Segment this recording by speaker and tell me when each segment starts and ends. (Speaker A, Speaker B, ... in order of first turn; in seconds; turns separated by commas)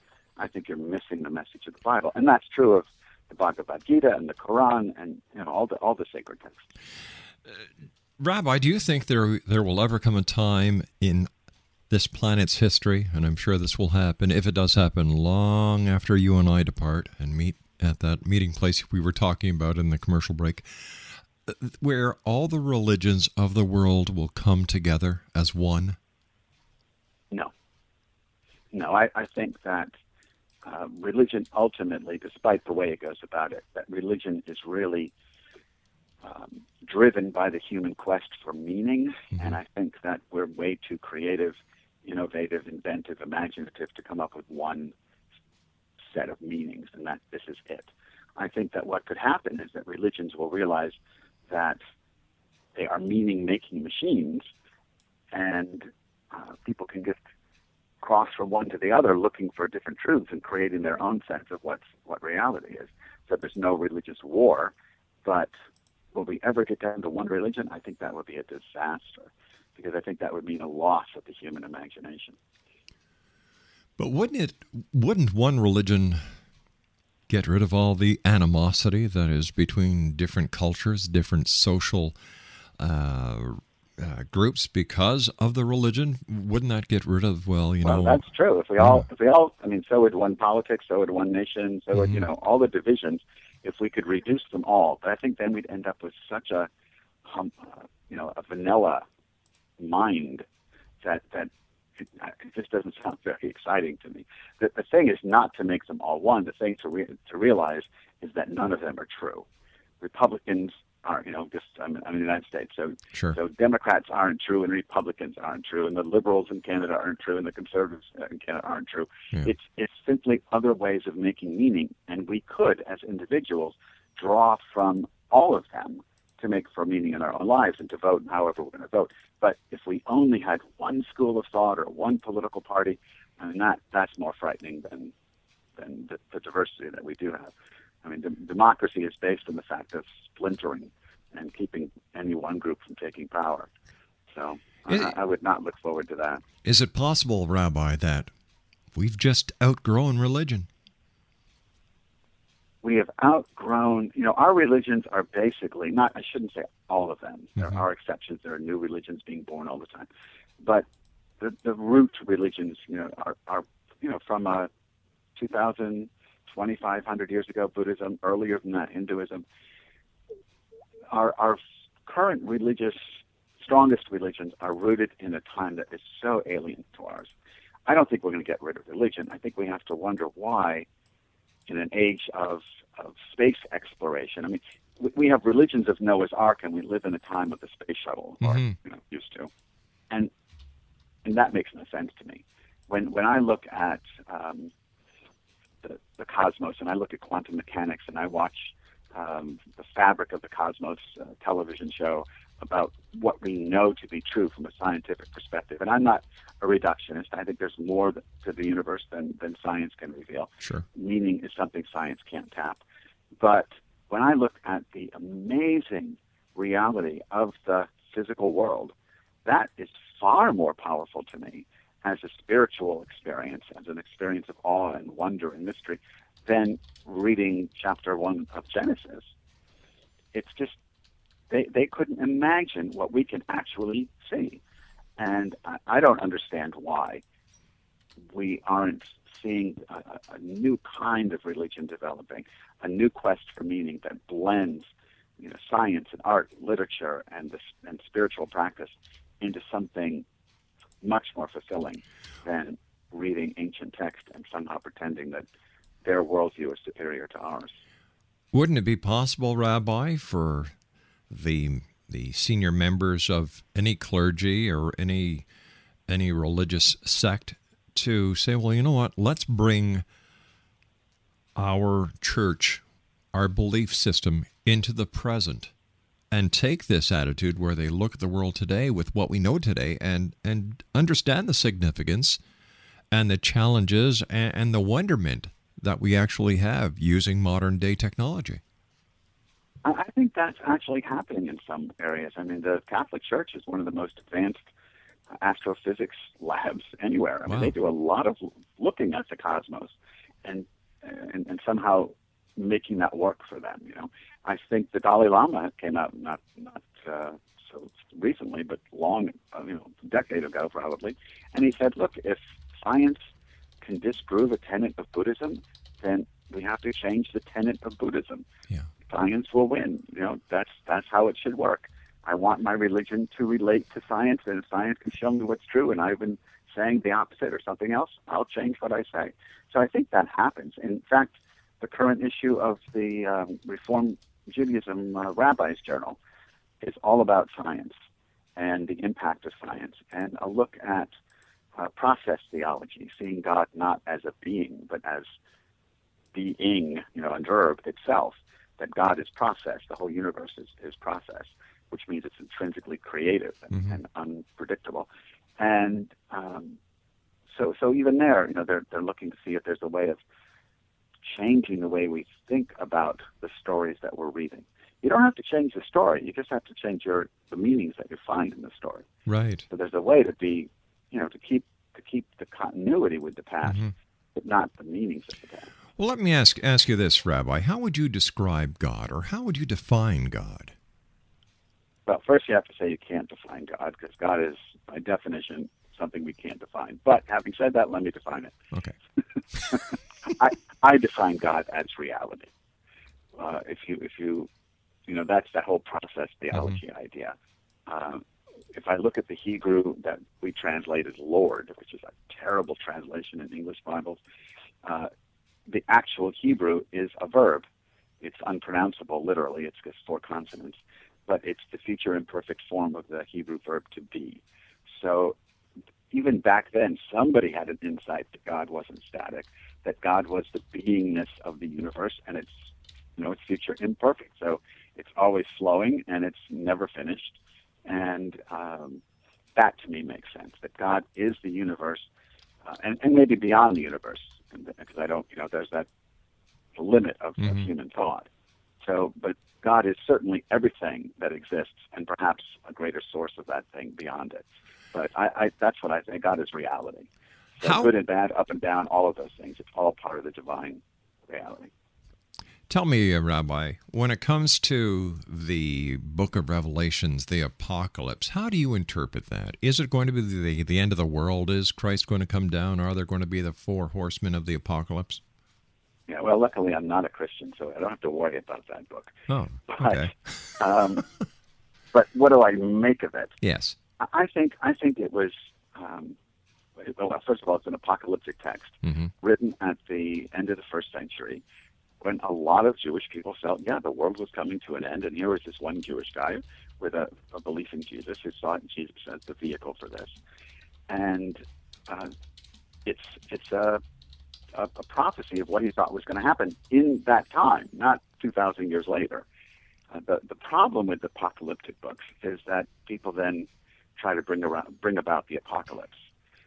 Speaker A: 0.4-6.6, Speaker B: 8.2-11.3, Speaker B: 11.9-20.7, Speaker B: 21.5-26.0, Speaker A: 28.7-29.9, Speaker A: 30.6-35.1, Speaker A: 36.2-44.9, Speaker A: 46.1-51.0, Speaker A: 51.5-51.8, Speaker A: 52.8-54.5, Speaker A: 55.3-57.2, Speaker A: 58.0-64.7, Speaker A: 65.2-65.5, Speaker A: 66.1-72.4, Speaker B: 74.0-76.2, Speaker B: 77.3-82.1, Speaker B: 82.8-88.2, Speaker A: 87.8-96.7, Speaker B: 88.8-89.1, Speaker B: 91.9-92.2, Speaker A: 97.2-99.0, Speaker A: 99.8-100.4, Speaker A: 101.0-101.5, Speaker A: 102.0-109.4, Speaker A: 110.0-135.1, Speaker A: 135.8-137.5, Speaker A: 138.0-143.7, Speaker A: 144.3-146.4, Speaker B: 146.6-148.3, Speaker B: 148.9-150.7, Speaker A: 152.8-160.1, Speaker A: 161.4-164.7, Speaker A: 165.4-169.4, Speaker A: 171.1-173.0, Speaker A: 173.6-177.3, Speaker A: 177.9-180.9, Speaker A: 181.7-189.5, Speaker B: 188.4-188.7, Speaker A: 191.2-194.7, Speaker A: 195.8-212.8, Speaker A: 213.4-218.9, Speaker A: 219.4-229.3, Speaker A: 230.3-230.8, Speaker A: 231.5-234.6, Speaker A: 235.2-237.2, Speaker A: 238.3-250.2, Speaker A: 251.0-255.5, Speaker A: 256.0-257.8, Speaker B: 258.5-260.7, Speaker B: 261.3-265.4, Speaker B: 266.1-270.0, Speaker B: 271.6-272.8, Speaker B: 273.3-275.7, Speaker B: 276.3-282.4, Speaker B: 283.1-288.6, Speaker A: 289.8-294.6, Speaker A: 295.4-299.9, Speaker B: 297.5-297.7, Speaker A: 300.4-313.3, Speaker A: 313.8-318.4, Speaker A: 319.1-336.2, Speaker A: 336.8-337.9, Speaker A: 338.6-341.1, Speaker A: 341.8-345.3, Speaker A: 346.3-355.1, Speaker A: 355.6-356.8, Speaker A: 357.5-360.2, Speaker A: 361.2-369.1, Speaker B: 369.3-369.6, Speaker A: 369.7-375.7, Speaker B: 373.6-373.9, Speaker B: 376.0-380.7, Speaker A: 382.1-388.6, Speaker A: 389.7-392.5, Speaker A: 393.4-394.5, Speaker A: 395.1-397.4, Speaker B: 396.5-396.8, Speaker A: 397.9-398.2, Speaker A: 398.7-404.2, Speaker A: 404.8-405.1, Speaker A: 405.7-407.6, Speaker A: 408.2-414.4, Speaker A: 414.9-415.4, Speaker A: 416.1-429.0, Speaker A: 429.6-432.1, Speaker A: 432.7-435.9, Speaker A: 436.8-438.3, Speaker B: 437.4-437.7, Speaker A: 438.8-447.1, Speaker A: 447.6-451.7, Speaker B: 447.6-447.9, Speaker B: 452.7-465.2, Speaker A: 466.1-469.1, Speaker B: 469.3-470.1, Speaker A: 469.7-471.0, Speaker A: 471.9-473.4, Speaker B: 473.4-473.8, Speaker A: 474.0-476.1, Speaker A: 476.8-481.4, Speaker B: 478.9-479.1, Speaker A: 482.0-490.1, Speaker A: 490.9-492.1, Speaker A: 492.9-493.8, Speaker A: 494.5-499.2, Speaker A: 499.9-506.0